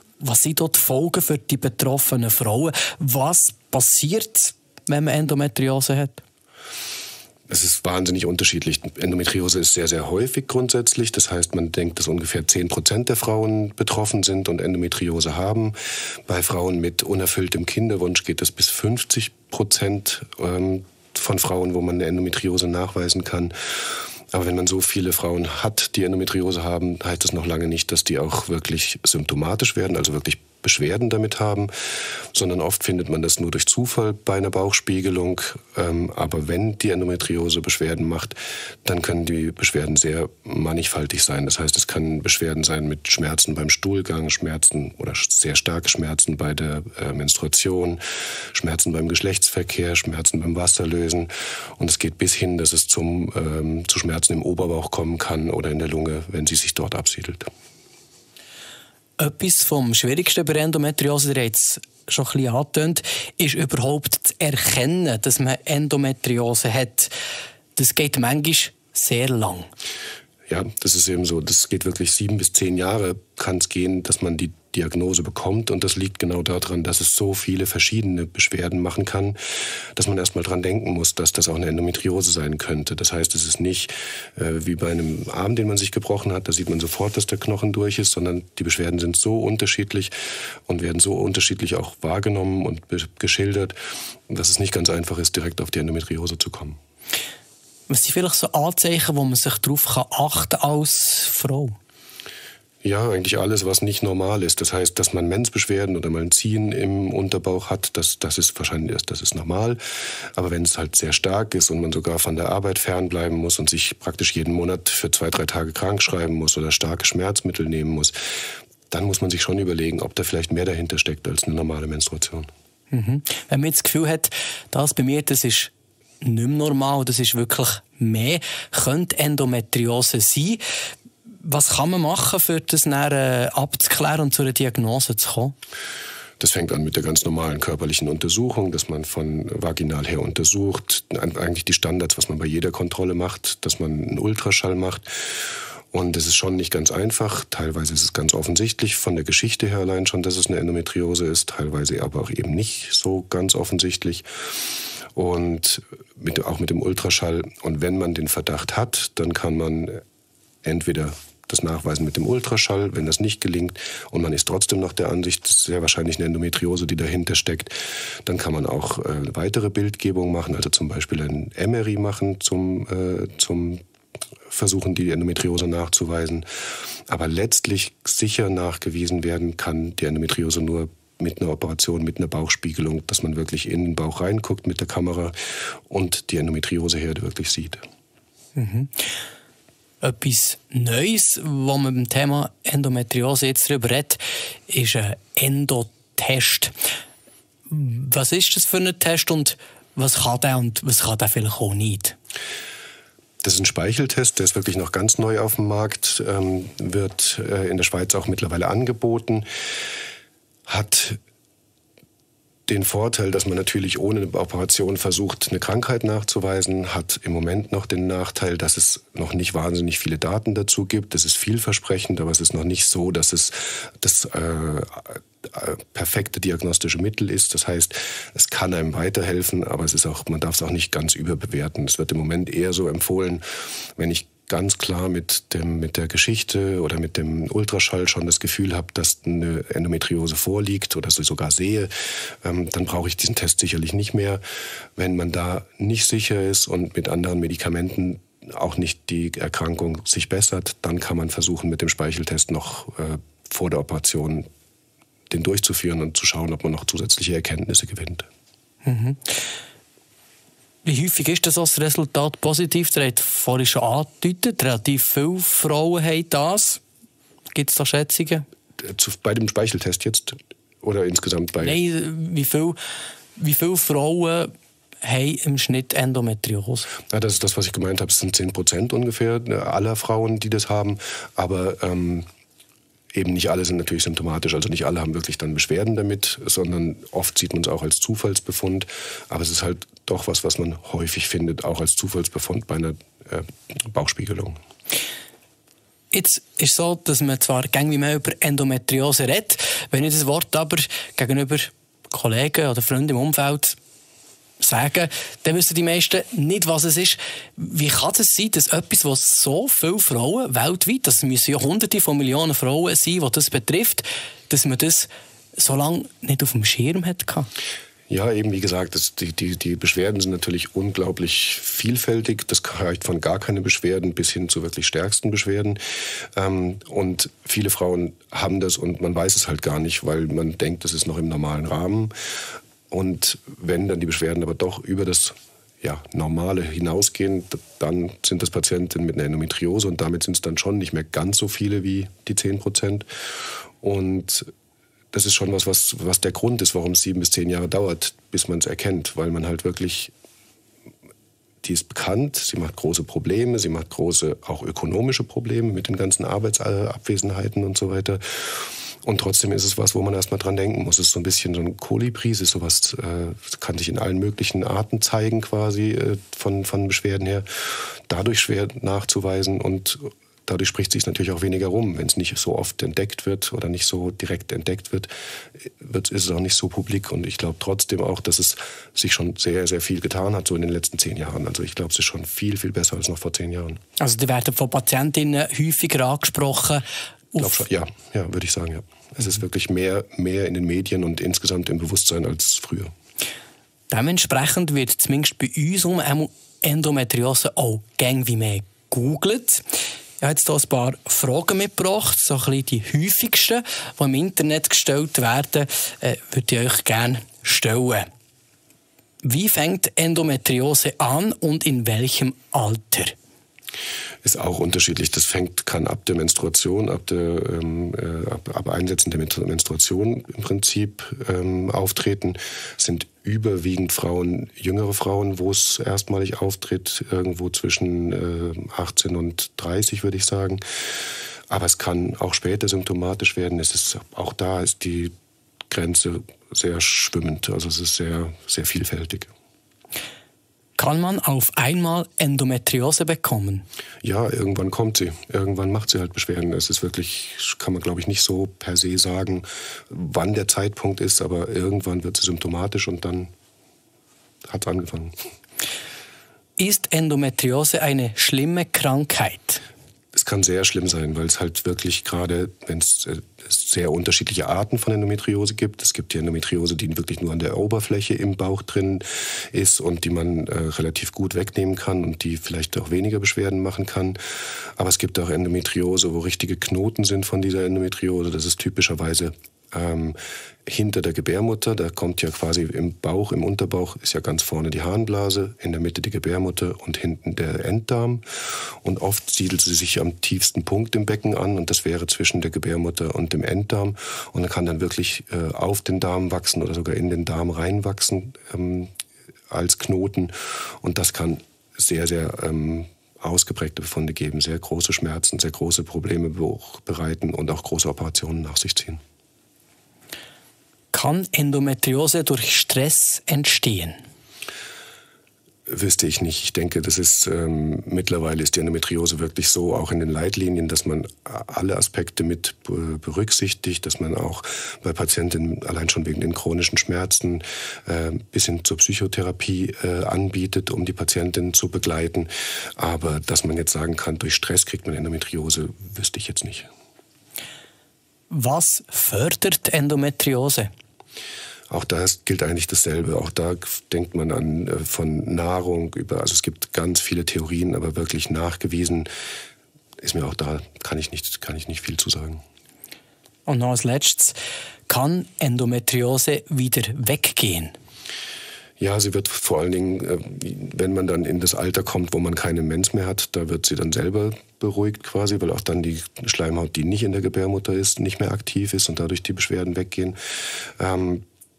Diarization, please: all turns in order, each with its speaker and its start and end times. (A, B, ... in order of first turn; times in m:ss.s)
0:00.2-0:06.2 A
0:07.5-0:15.8 B
0:16.3-0:48.0 B
0:48.5-0:57.5 B
0:59.2-1:07.1 A
1:07.8-1:09.7 A
1:10.5-1:19.4 B
1:20.0-1:30.1 B
1:30.7-1:33.8 B
1:34.3-1:36.8 B
1:37.9-1:41.8 A
1:42.8-1:49.8 B
1:50.3-1:58.2 B
1:58.9-2:02.5 B
2:02.9-2:05.7 A
2:06.2-2:10.6 A
2:11.4-2:15.5 A
2:16.4-2:34.2 B
2:35.2-2:40.0 B
2:40.6-2:53.8 B
2:54.5-2:56.4 B
2:57.1-3:05.4 B
3:05.9-3:07.8 B
3:08.6-3:08.9 A
3:10.0-3:16.7 A
3:17.7-3:22.2 A
3:23.4-3:29.4 B
3:30.7-3:31.2 B
3:32.7-3:53.4 B
3:54.0-4:04.4 B
4:05.0-4:14.5 B
4:15.3-4:18.3 B
4:18.8-4:19.3 A
4:20.8-4:26.8 A
4:27.5-4:28.4 A
4:28.8-4:31.8 B
4:31.6-4:32.8 A
4:33.4-4:36.9 A
4:37.1-4:42.3 B
4:43.1-4:54.6 B
4:56.1-5:03.8 A
5:04.6-5:17.5 A
5:18.1-5:25.8 B
5:26.3-5:32.1 B
5:32.9-5:44.5 B
5:45.1-5:50.1 B
5:51.6-6:23.8 B
6:24.0-6:27.6 A
6:27.4-6:32.9 B
6:33.9-6:39.6 A
6:40.2-6:48.1 A
6:49.2-6:53.2 A
6:54.2-7:10.6 B
7:11.5-7:15.1 B
7:15.7-7:19.3 B
7:20.8-7:23.6 A
7:24.0-7:33.3 B
7:34.4-7:35.2 B
7:36.6-7:39.6 A
7:40.1-7:54.2 B
7:54.8-8:18.9 B
8:19.5-8:29.0 B
8:30.9-8:34.0 A
8:35.7-8:56.7 B
8:58.3-9:00.7 A
9:01.7-9:09.1 B
9:10.0-9:12.4 B
9:13.4-9:14.4 A
9:14.9-9:17.8 A
9:18.8-9:30.2 B
9:30.8-9:31.3 B